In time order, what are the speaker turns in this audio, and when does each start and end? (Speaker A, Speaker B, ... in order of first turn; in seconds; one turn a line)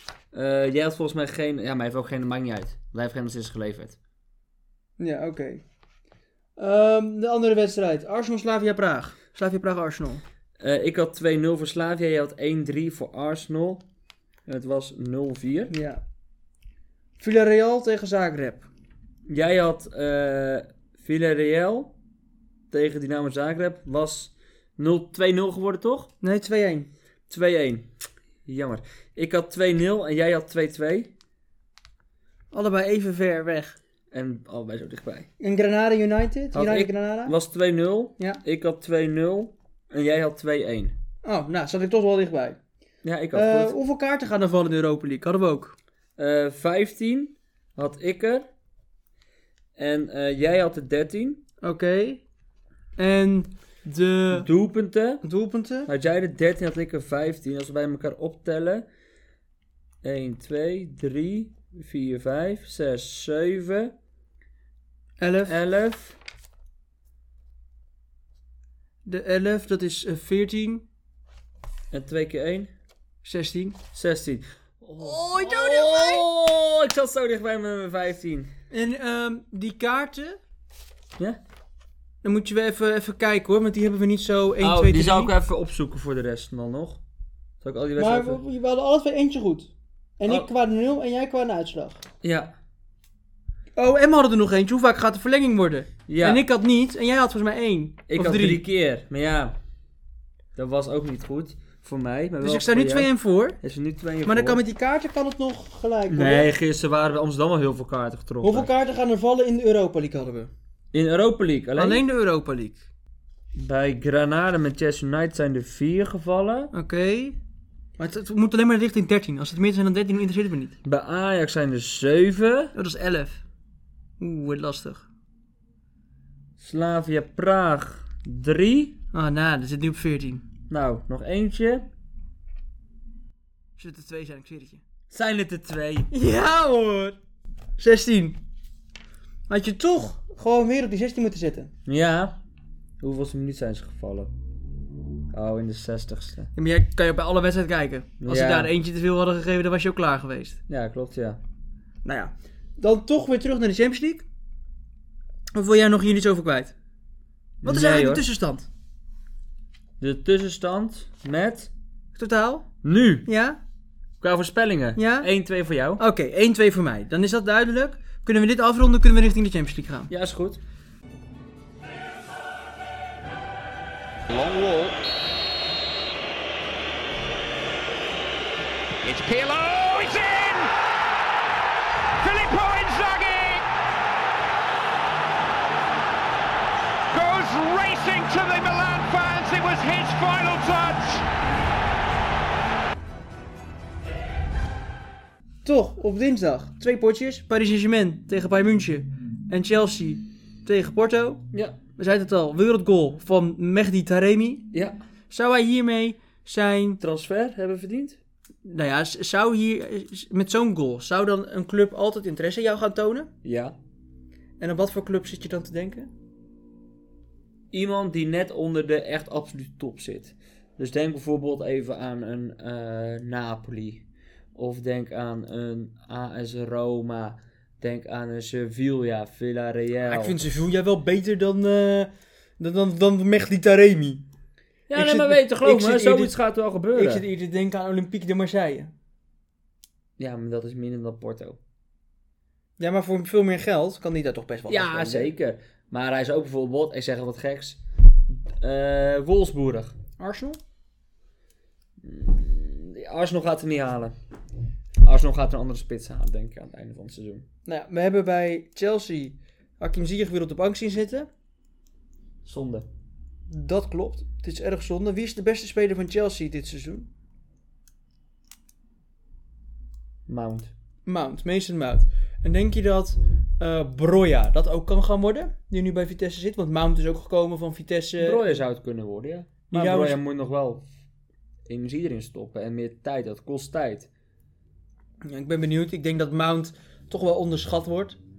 Speaker A: 0.3-4.0
Speaker B: 5.0-5.6
Speaker B: 6.6-10.2
Speaker A: 10.6-13.8
Speaker A: 14.5-15.7
Speaker B: 15.7-16.0
Speaker B: 17.2-18.7
Speaker A: 19.3-21.9
Speaker A: 22.7-26.1
Speaker B: 26.2-26.9
Speaker A: 27.3-27.9
Speaker A: 28.5-31.1
Speaker B: 32.5-33.8
Speaker A: 34.1-35.3
Speaker B: 35.4-37.4
Speaker A: 36.5-41.0
Speaker B: 41.2-42.6
Speaker A: 43.0-43.8
Speaker B: 43.3-45.8
Speaker A: 46.2-48.5
Speaker A: 49.8-51.4
Speaker B: 51.6-52.2
Speaker B: 53.0-54.5
Speaker A: 54.3-55.2
Speaker B: 55.2-55.9
Speaker A: 55.9-58.9
Speaker A: 60.0-63.9
Speaker B: 65.2-65.6
Speaker A: 65.5-66.2
Speaker B: 69.0-70.8
Speaker A: 71.9-72.7
Speaker B: 73.2-73.8
Speaker A: 73.9-78.5
Speaker B: 75.0-76.2
Speaker B: 78.7-80.4
Speaker B: 82.2-85.3
Speaker A: 84.6-87.0
Speaker A: 87.6-88.4
Speaker B: 88.0-92.0
Speaker A: 92.2-92.5
Speaker B: 93.8-98.6
Speaker A: 96.1-96.4
Speaker A: 98.1-99.6
Speaker A: 100.6-103.1
Speaker B: 102.4-103.6
Speaker A: 103.6-104.6
Speaker B: 104.3-106.5
Speaker A: 106.1-108.7
Speaker B: 108.4-110.5
Speaker A: 110.9-112.0
Speaker B: 111.8-112.8
Speaker A: 113.5-116.7
Speaker B: 116.7-117.4
Speaker B: 118.0-120.8
Speaker A: 120.8-122.7
Speaker B: 122.8-123.4
Speaker B: 124.2-125.1
Speaker A: 126.6-129.0
Speaker B: 129.1-130.4
Speaker A: 130.7-131.9
Speaker B: 133.8-134.8
Speaker A: 135.1-136.1
Speaker B: 136.1-137.2
Speaker B: 137.8-138.4
Speaker B: 139.5-141.7
Speaker A: 141.9-142.4
Speaker A: 143.0-144.3
Speaker A: 145.3-146.5
Speaker B: 146.6-150.6
Speaker A: 148.2-148.7
Speaker A: 150.7-151.4
Speaker B: 152.1-154.2
Speaker B: 155.5-156.7
Speaker A: 157.6-158.3
Speaker B: 157.6-158.7
Speaker A: 160.0-161.7
Speaker B: 162.2-162.7
Speaker A: 162.8-163.3
Speaker B: 163.3-163.6
Speaker A: 164.2-166.0
Speaker B: 164.9-165.3
Speaker B: 166.0-170.1
Speaker A: 170.1-170.6
Speaker C: 174.3-175.0
Speaker C: 179.0-180.7
Speaker C: 182.2-183.7
Speaker C: 187.1-191.2
Speaker B: 195.7-201.4
Speaker A: 201.5-201.8
Speaker B: 202.0-204.7
Speaker A: 204.7-205.0
Speaker B: 205.3-207.0
Speaker A: 207.0-208.2
Speaker B: 208.7-213.3
Speaker A: 213.4-213.8
Speaker B: 214.6-216.1
Speaker A: 217.7-224.0
Speaker A: 224.6-230.4
Speaker B: 230.1-234.3
Speaker A: 234.9-237.2
Speaker B: 234.9-236.3
Speaker B: 236.9-238.9
Speaker A: 240.2-241.6
Speaker B: 242.8-245.3
Speaker A: 244.7-249.9
Speaker B: 250.2-250.6
Speaker A: 252.0-254.1
Speaker A: 255.0-257.4
Speaker B: 257.7-261.3
Speaker A: 262.4-262.9
Speaker B: 263.5-267.1
Speaker A: 270.3-270.7
Speaker B: 271.1-278.4
Speaker A: 278.2-280.9
Speaker B: 279.7-280.2
Speaker A: 281.7-284.1
Speaker B: 285.2-288.2